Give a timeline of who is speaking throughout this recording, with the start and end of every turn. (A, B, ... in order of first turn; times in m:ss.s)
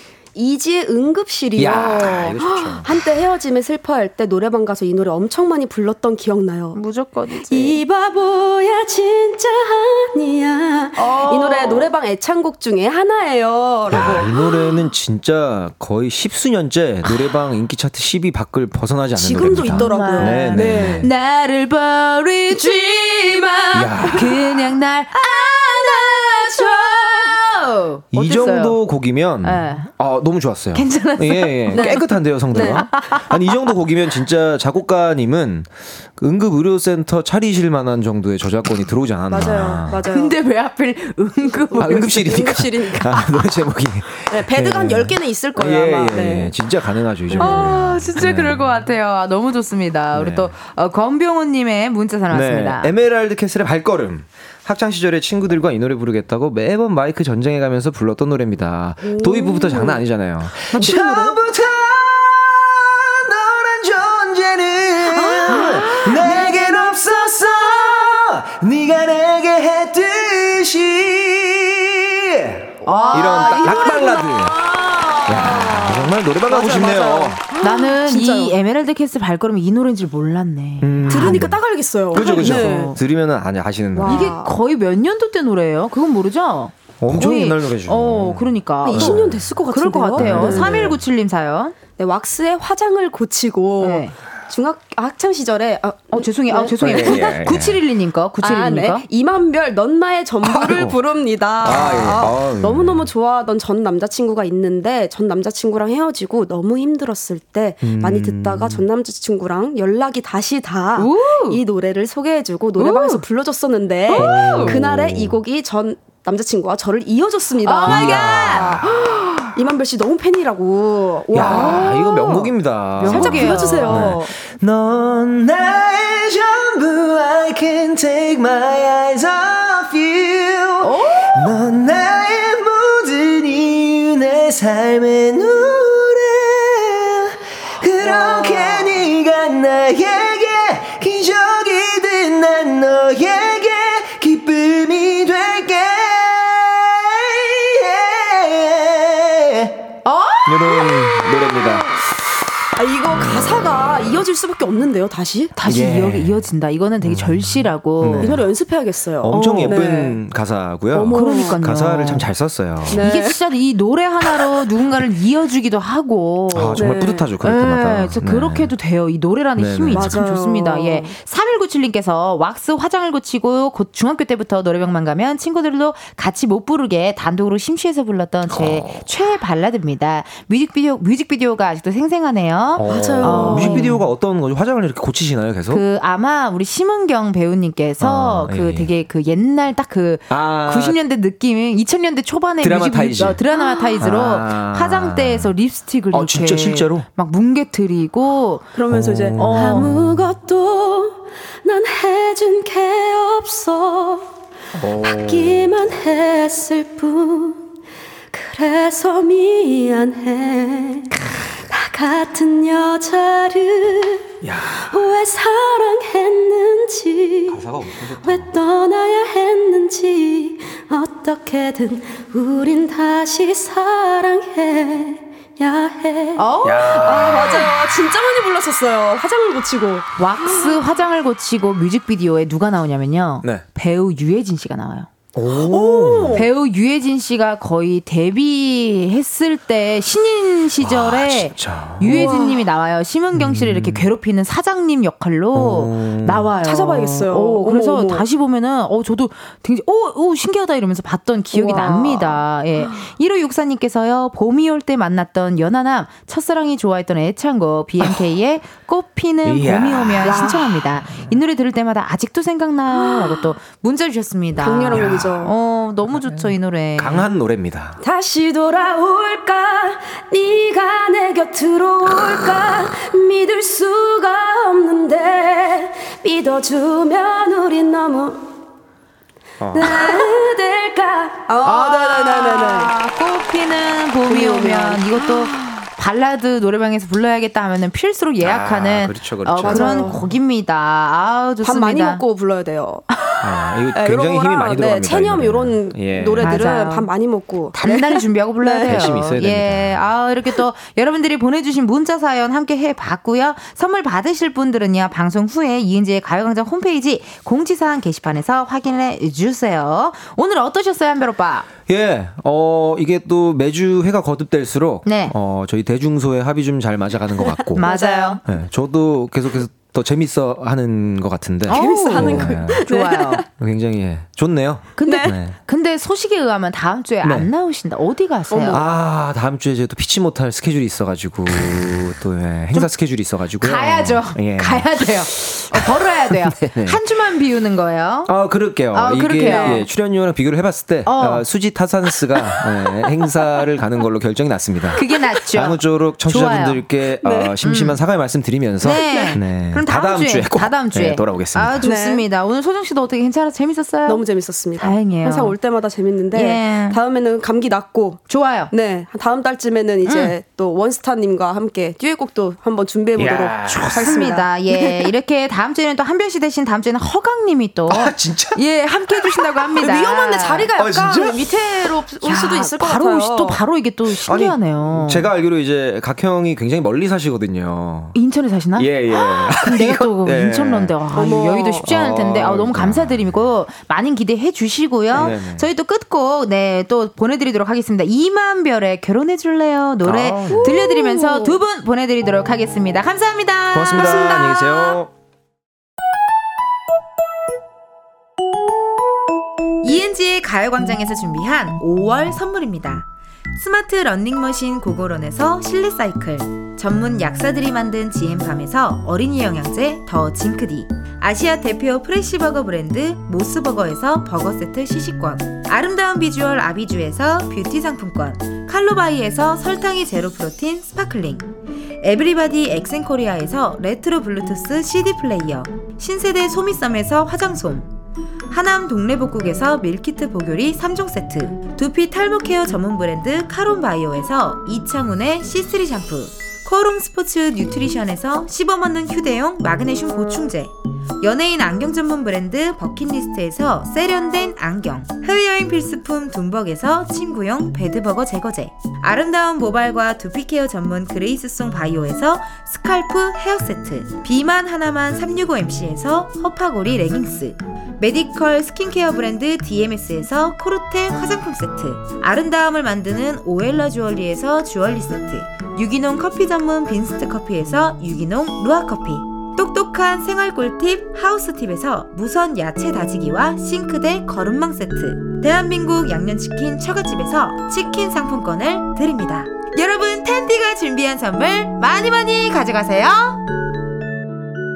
0:00.3-0:06.8 A
0:01.6-0:02.9 B
0:06.7-0:07.8 C
0:07.5-0:14.9 A
0:11.0-0:11.9 C
0:13.9-0:21.1 B
0:13.9-0:14.3 C
0:19.1-0:21.1 A
0:19.4-0:28.8 C
0:23.7-0:24.4 B
0:25.6-0:26.2 A
0:28.1-0:40.1 B
0:29.4-0:29.9 C
0:30.7-0:33.3 C
0:31.7-0:33.2 A
0:39.3-0:40.4 A
0:40.1-0:42.4 C
0:41.7-0:43.3 A
0:41.8-0:48.8 B
0:44.3-0:47.8 A
0:47.4-0:52.9 C
0:50.1-0:50.5 B
0:52.3-1:14.6 B
0:59.0-1:00.0 A
1:00.7-1:01.4 A
1:05.1-1:07.0 A
1:05.5-1:06.4 C
1:12.8-1:18.5 A
1:12.8-1:14.3 C
1:15.2-1:17.4 B
1:17.6-1:21.5 C
1:20.8-1:21.6 B
1:21.1-1:23.0 A
1:22.1-1:24.3 B
1:22.1-1:22.9 C
1:23.9-1:24.5 A
1:24.0-1:31.7 C
1:27.0-1:29.5 B
1:28.8-1:31.0 A
1:30.2-1:30.8 B
1:32.0-1:37.4 A
1:33.8-1:34.1 C
1:36.1-1:39.0 C
1:36.8-1:37.8 B
1:38.4-2:04.3 A
1:40.4-1:41.0 B
1:41.6-1:43.1 B
1:47.8-1:48.8 B
1:51.0-1:51.6 C
1:52.8-1:53.2 C
1:54.0-1:54.8 C
1:54.1-1:55.4 B
1:57.6-1:58.8 C
1:57.9-1:58.9 B
2:01.3-2:29.8 B
2:01.4-2:01.9 C
2:03.0-2:04.1 C
2:10.8-2:11.5 C
2:18.0-2:18.9 C
2:30.0-2:31.6 C
2:30.4-2:32.0 B
2:32.8-2:35.6 A
2:33.2-2:34.1 B
2:35.6-2:38.4 C
2:35.6-2:36.4 B
2:37.0-2:38.5 B
2:38.2-2:40.2 A
2:39.2-2:43.1 B
2:39.3-2:39.8 C
2:40.9-2:41.6 A
2:41.1-2:42.3 C
2:42.9-2:43.4 A
2:42.9-2:46.9 C
2:46.5-2:48.7 B
2:46.7-2:47.3 A
2:47.4-3:04.0 C
2:49.6-2:50.2 B
2:49.9-2:51.1 A
2:58.5-2:59.0 B
3:02.8-3:05.8 B
3:02.8-3:04.0 A
3:05.7-3:18.7 C
3:08.0-3:08.9 B
3:10.3-3:11.0 B
3:12.6-3:13.4 B
3:13.5-3:14.1 A
3:14.0-3:15.5 B
3:16.1-3:17.1 B
3:18.7-3:24.3 A
3:18.9-3:20.0 B
3:19.4-3:19.9 C
3:24.8-3:25.7 B
3:24.9-3:27.6 A
3:28.3-3:50.7 A
3:34.4-3:34.9 B
3:37.5-3:38.5 B
3:46.4-3:47.7 C
3:46.6-3:47.8 B
3:50.2-3:55.1 C
3:55.3-3:56.5 B
3:55.6-3:56.4 A
3:56.3-4:27.2 C
4:00.8-4:02.3 B
4:02.0-4:02.6 A
4:03.3-4:04.1 B
4:05.5-4:06.5 B
4:06.6-4:08.2 A
4:11.5-4:13.1 A
4:19.4-4:21.4 B
4:20.2-4:20.7 A
4:22.9-4:23.6 A
4:24.6-4:25.5 A
4:24.9-4:25.4 B
4:26.1-4:28.0 B
4:28.0-4:38.5 A
4:39.6-4:40.0 B
4:39.7-4:42.9 A
4:41.6-4:52.2 C
4:44.2-4:45.8 A
4:48.4-4:50.1 B
4:49.6-4:50.2 A
4:51.6-4:53.1 A
4:53.4-4:56.7 B
4:53.9-4:59.1 A
4:56.4-4:57.1 C
4:57.7-5:11.7 C
4:58.8-5:00.1 B
5:11.9-5:17.9 B
5:15.0-5:15.3 C
5:17.4-5:18.4 A
5:17.8-5:18.4 C
5:18.4-5:22.9 B
5:21.7-5:23.4 C
5:21.7-5:23.5 A
5:23.6-5:25.6 B
5:25.0-5:28.8 C
5:25.0-5:25.3 A
5:27.2-5:27.5 B
5:28.5-5:28.9 A
5:28.7-5:37.0 B
5:33.6-5:38.3 C
5:38.3-5:51.8 B
5:38.9-5:39.8 C
5:39.4-5:39.9 A
5:41.0-5:41.4 C
5:45.0-5:46.8 C
5:47.2-5:47.6 A
5:47.6-5:48.0 C
5:48.8-5:54.2 C
5:49.0-5:49.4 A
5:51.8-5:52.2 A
5:54.0-6:05.1 A
5:54.8-5:55.6 C
5:56.3-5:57.0 C
5:58.3-5:58.7 C
6:00.0-6:00.3 C
6:03.2-6:04.2 B
6:03.7-6:10.7 C
6:07.9-6:08.6 B
6:09.8-6:13.6 A
6:10.8-6:11.4 B
6:12.2-6:15.3 C
6:14.2-6:18.1 B
6:18.1-6:35.0 C
6:18.8-6:21.0 B
6:21.1-6:21.9 A
6:21.8-6:23.4 B
6:25.1-6:25.7 B
6:30.0-6:30.7 B
6:30.5-6:31.6 A
6:33.7-6:35.1 B
6:39.8-6:43.0 C
6:43.6-7:01.5 C
7:02.0-7:07.9 C
7:08.5-8:03.4 C